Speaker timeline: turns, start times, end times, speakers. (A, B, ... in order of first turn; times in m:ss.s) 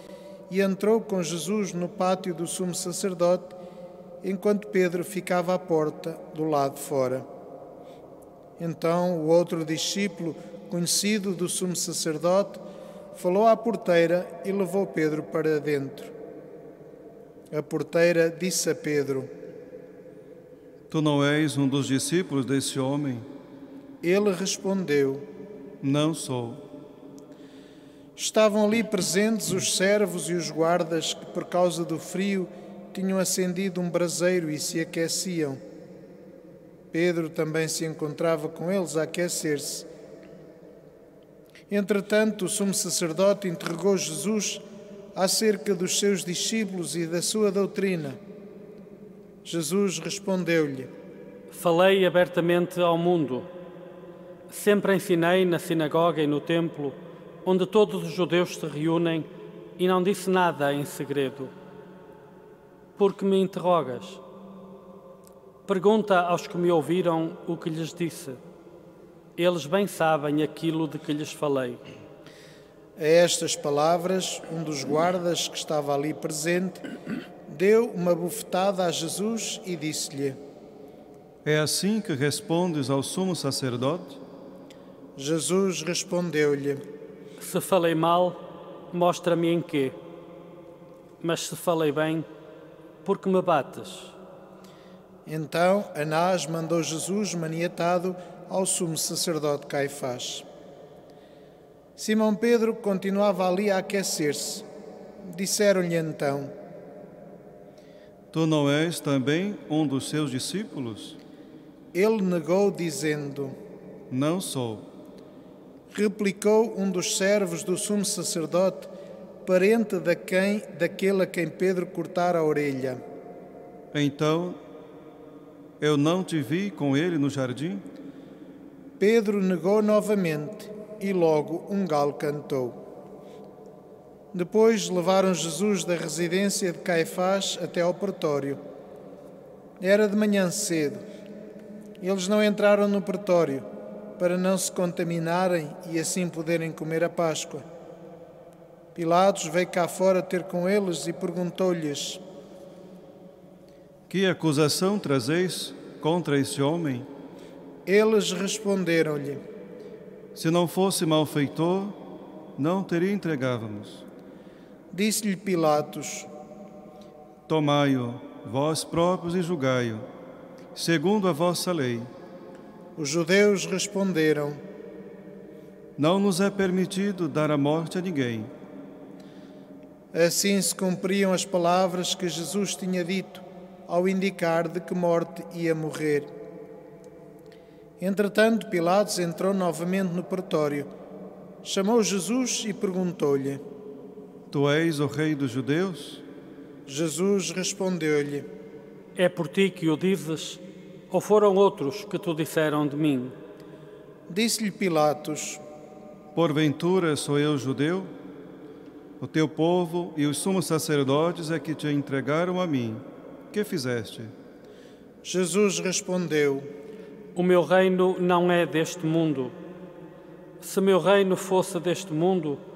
0:00.5-0:03.6 A
0:04.2-0:07.3 A
0:08.6-0:16.1 A
0:17.5-0:19.3 A
0:20.9-0:23.3 B
0:24.0-0:25.3 A
0:25.8-0:26.6 B
0:28.2-0:35.6 A
0:36.9-0:39.9 A
0:41.7-0:48.2 A
0:49.4-0:50.9 A
0:51.5-0:53.5 C
0:54.5-1:01.5 C
1:03.0-1:04.2 C
1:05.7-1:08.4 C
1:09.4-1:11.8 C
1:13.0-1:16.9 A
1:17.5-1:20.4 A
1:21.4-1:24.2 B
1:25.2-1:26.8 A
1:27.4-1:30.0 C
1:31.2-1:32.3 C
1:33.0-1:34.1 C
1:35.3-1:40.5 A
1:42.0-1:44.7 A
1:45.2-1:46.6 A
1:48.3-1:51.2 B
1:51.9-1:53.6 A
1:54.1-1:54.9 B
1:55.9-1:58.9 A
1:59.4-2:03.0 A
2:03.9-2:04.6 B
2:05.8-2:07.8 B
2:09.0-2:12.8 A
2:14.3-2:18.6 A
2:19.8-2:21.1 A
2:22.0-2:27.7 A
2:29.0-2:32.2 A
2:34.1-2:37.1 B
2:37.9-2:39.4 A
2:40.4-2:42.0 B
2:42.6-2:44.0 B
2:44.9-2:46.3 A
2:47.5-2:50.1 B
2:50.8-2:52.1 B
2:53.0-2:54.6 A
2:56.0-2:58.5 B
3:00.1-3:06.3 A
3:08.0-3:10.9 A
3:11.6-3:13.6 A
3:14.5-3:16.2 B
3:16.9-3:18.5 A
3:19.2-3:23.4 C
3:24.3-3:25.6 A
3:26.4-3:28.1 B
3:29.2-3:34.3 B
3:35.2-3:36.7 A
3:37.4-3:39.6 C
3:40.6-3:42.6 C